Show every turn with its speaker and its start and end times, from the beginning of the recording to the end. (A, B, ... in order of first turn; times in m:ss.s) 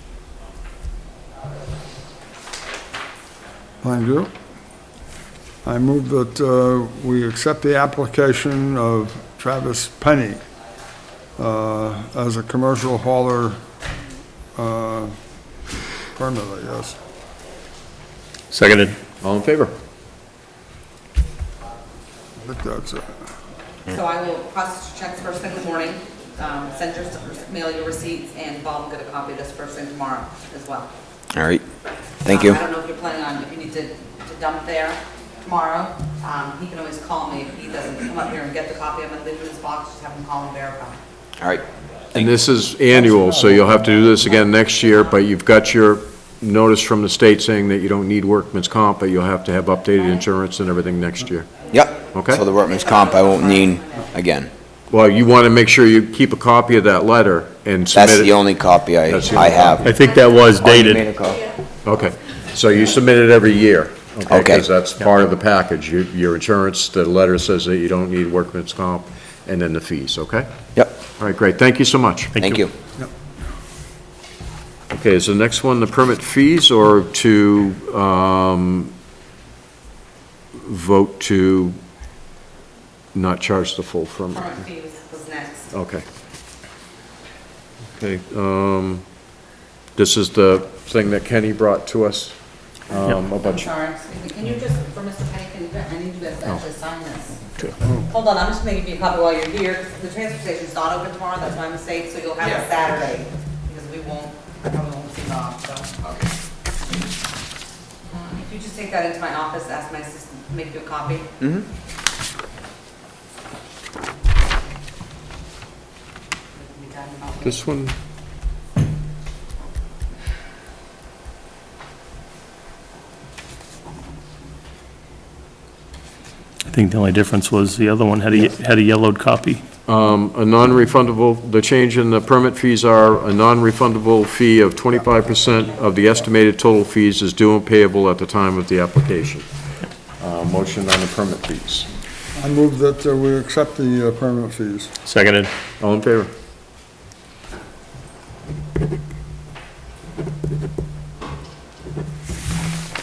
0:03.8-0:04.3 A
0:05.6-0:10.4 A
0:11.4-0:13.6 A
0:14.6-0:15.2 A
0:16.2-0:17.0 A
0:18.5-0:19.0 B
0:19.2-0:19.8 C
0:22.4-0:23.2 A
0:23.9-0:30.9 D
0:31.3-0:31.6 E
0:32.2-0:32.6 E
0:32.2-0:41.0 D
0:41.4-0:42.3 E
0:42.1-0:51.6 C
0:43.9-0:45.2 D
0:51.7-0:54.5 E
0:52.1-0:52.4 C
0:52.4-0:54.1 D
0:54.9-0:58.5 C
0:57.9-0:59.9 E
0:59.0-0:59.9 C
0:59.8-1:01.0 B
1:00.0-1:00.4 D
1:00.6-1:01.4 E
1:01.8-1:10.5 C
1:04.3-1:04.6 E
1:11.2-1:12.4 C
1:12.4-1:12.6 B
1:12.4-1:12.7 E
1:14.9-1:18.9 C
1:20.6-1:21.8 C
1:23.1-1:24.5 C
1:24.3-1:25.7 D
1:25.7-1:26.0 C
1:28.0-1:29.0 C
1:30.0-1:33.7 C
1:33.4-1:37.4 D
1:38.1-1:45.9 D
1:46.0-1:46.3 E
1:48.1-1:51.3 D
1:56.6-1:57.6 D
1:57.4-1:58.0 C
2:06.7-2:09.6 B
2:09.9-2:19.5 C
2:20.2-2:21.9 C
2:22.4-2:24.9 A
2:25.1-2:25.5 B
2:25.8-2:26.3 C